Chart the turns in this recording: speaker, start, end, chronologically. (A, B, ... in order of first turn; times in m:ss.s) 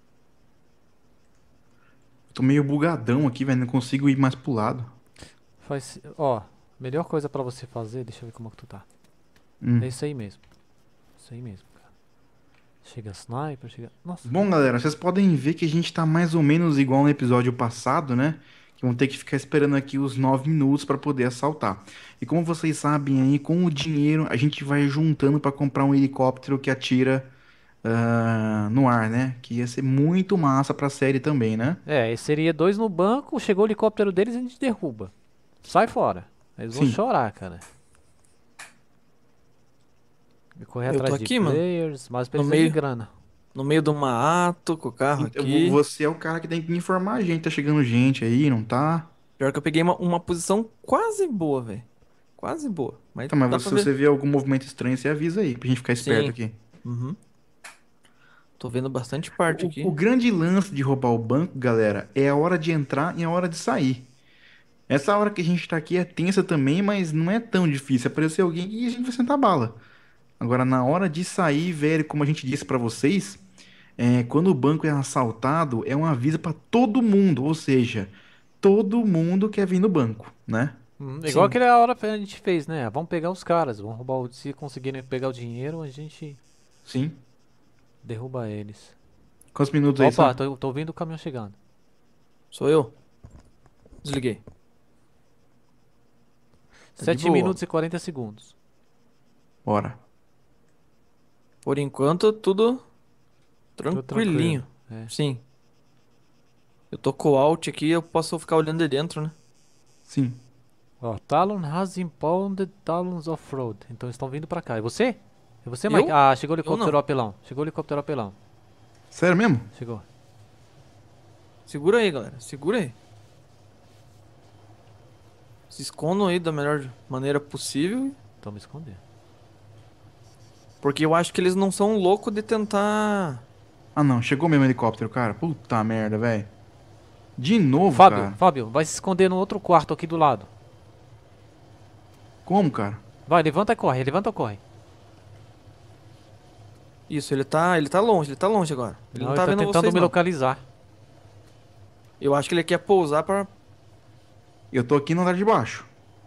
0:02.3-0:04.9 A
0:05.6-0:08.9 B
0:09.6-0:09.9 A
0:09.8-0:10.4 B
0:11.2-0:11.8 B
0:12.8-0:14.5 B
0:14.2-0:27.3 A
0:27.8-0:31.8 A
0:31.9-0:37.6 B
0:36.7-0:37.0 A
0:40.6-0:43.1 B
0:40.9-0:41.6 C
0:42.4-0:42.8 C
0:43.6-0:45.8 C
0:45.2-0:49.1 A
0:49.4-0:51.9 C
0:52.4-0:53.9 C
0:53.3-0:56.6 A
0:56.0-0:57.2 C
0:58.6-1:00.0 C
0:59.5-1:04.1 A
1:04.9-1:09.8 A
1:10.4-1:13.4 A
1:14.0-1:21.6 A
1:21.0-1:26.4 B
1:26.8-1:27.2 A
1:28.0-1:29.0 B
1:29.6-1:30.4 A
1:30.0-1:31.6 B
1:32.5-1:32.9 C
1:34.0-1:34.4 C
1:37.0-1:38.5 B
1:37.0-1:37.6 C
1:39.6-1:40.0 A
1:41.6-1:42.8 C
1:43.8-1:45.4 C
1:43.9-1:45.1 B
1:46.9-1:49.4 C
1:50.1-1:50.4 A
1:51.0-1:58.4 B
1:55.9-1:57.0 C
1:59.1-1:59.7 A
1:59.7-2:00.0 B
2:01.7-2:03.0 C
2:05.7-2:08.2 C
2:08.4-2:09.0 B
2:10.8-2:13.4 C
2:14.0-2:16.5 A
2:17.4-2:18.4 A
2:17.9-2:20.5 B
2:22.5-2:23.0 A
2:23.3-2:24.6 B
2:27.1-2:30.1 C
2:29.1-2:30.6 B
2:32.2-2:33.5 C
2:34.7-2:35.9 A